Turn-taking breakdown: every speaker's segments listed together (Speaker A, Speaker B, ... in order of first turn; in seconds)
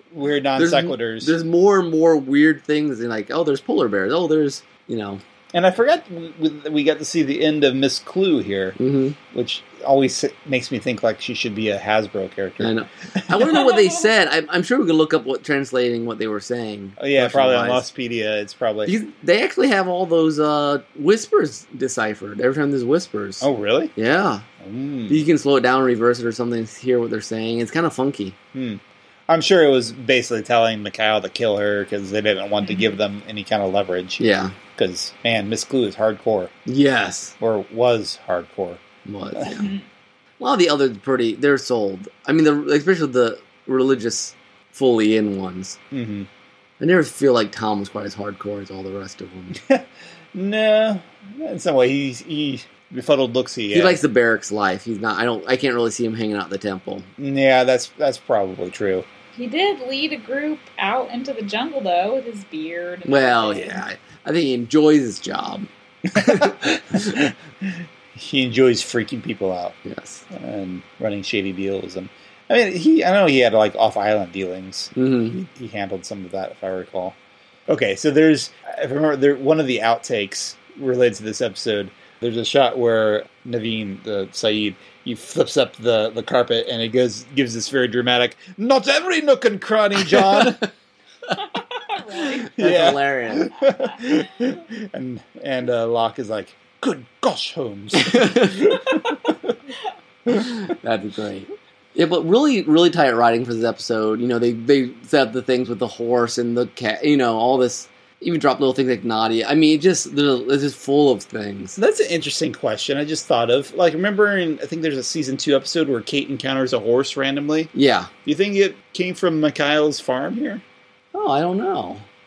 Speaker A: 0.1-1.3, 5.5-8.8, 9.3-13.8, 17.0-18.9, 23.4-23.9, 24.6-25.2, 28.5-34.2, 34.8-36.5, 37.4-38.8, 39.4-39.7, 45.9-46.3, 49.6-54.0, 57.2-59.0, 66.1-69.8, 70.3-77.2, 77.7-90.7, 92.5-99.5, 111.8-117.7, 118.2-120.6
Speaker B: 0.6-5.2, 8.8-9.2, 12.6-17.8, 18.9-24.4, 25.1-28.3, 34.2-34.5, 36.6-37.3, 39.0-39.6, 40.4-45.8, 46.8-49.6, 53.7-57.1, 63.1-66.5, 69.8-70.2, 74.9-75.4, 92.2-93.5, 98.0-98.6, 100.3-111.8, 117.7-118.1, 121.1-122.1
Speaker C: 39.5-39.8, 59.4-63.8, 91.4-92.5